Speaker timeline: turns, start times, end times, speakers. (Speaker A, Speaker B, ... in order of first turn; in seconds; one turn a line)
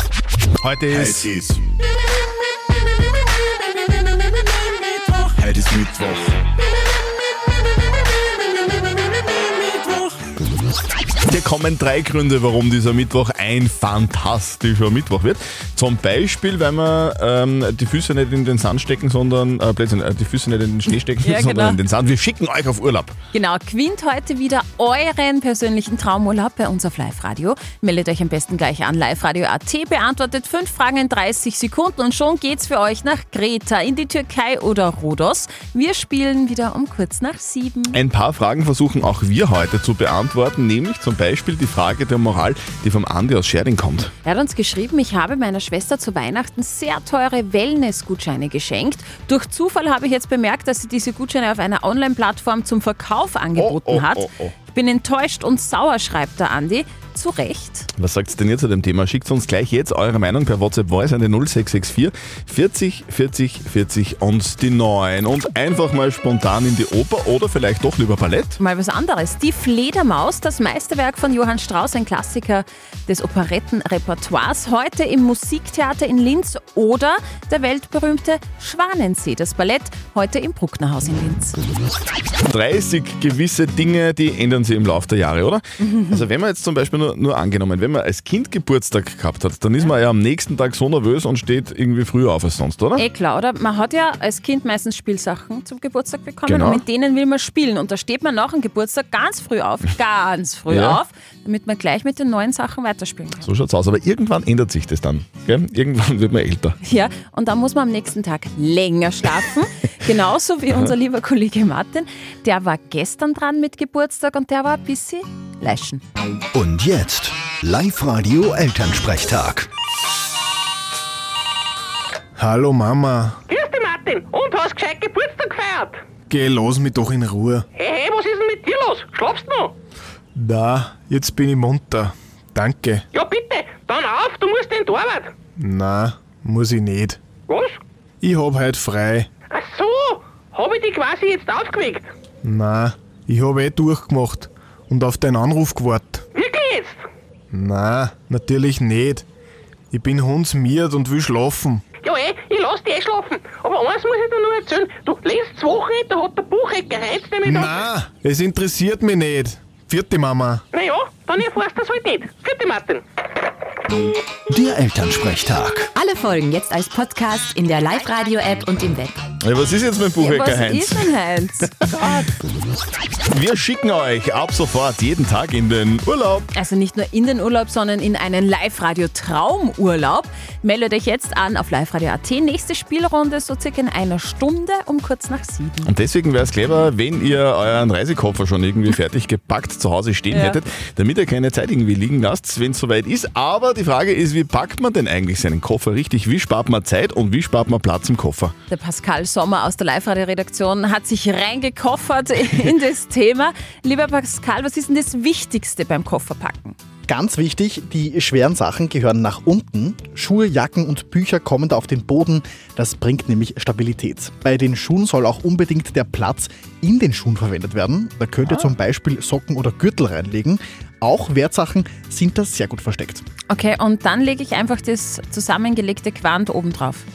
Speaker A: 0.6-1.4
Speaker B: 0.9-1.6
Speaker B: 5.3-6.2
Speaker A: 11.3-23.1
Speaker C: 20.9-21.8
Speaker C: 23.3-38.0
Speaker A: 37.9-44.1
Speaker C: 44.2-57.9
Speaker A: 53.6-54.5
Speaker A: 58.0-68.6
Speaker C: 68.6-81.6
Speaker A: 82.5-93.0
Speaker C: 85.8-86.3
Speaker C: 93.0-103.5
Speaker A: 96.5-96.8
Speaker A: 100.7-101.0
Speaker A: 103.5-106.8
Speaker C: 106.8-116.0
Speaker D: 116.5-119.7
Speaker B: 122.4-123.4
Speaker E: 123.5-126.0
Speaker B: 126.3-127.7
Speaker E: 127.8-129.7
Speaker B: 130.4-133.0
Speaker E: 133.1-135.3
Speaker B: 135.6-137.2
Speaker E: 137.5-137.8
Speaker B: 138.2-139.3
Speaker E: 139.5-142.1
Speaker B: 142.4-146.2
Speaker E: 146.4-147.0
Speaker B: 147.5-149.2
Speaker B: 149.9-151.8
Speaker E: 152.0-157.9
Speaker B: 157.4-160.6
Speaker E: 160.7-163.0
Speaker D: 164.5-165.9
Speaker F: 166.0-169.2
Speaker A: 169.4-171.1
Speaker C: 170.2-172.3
Speaker A: 173.3-176.5
Speaker C: 176.5-185.9
Speaker A: 185.8-198.5
Speaker C: 190.3-190.7
Speaker C: 198.7-206.8
Speaker G: 207.1-223.2
Speaker A: 218.5-218.7
Speaker C: 223.5-227.1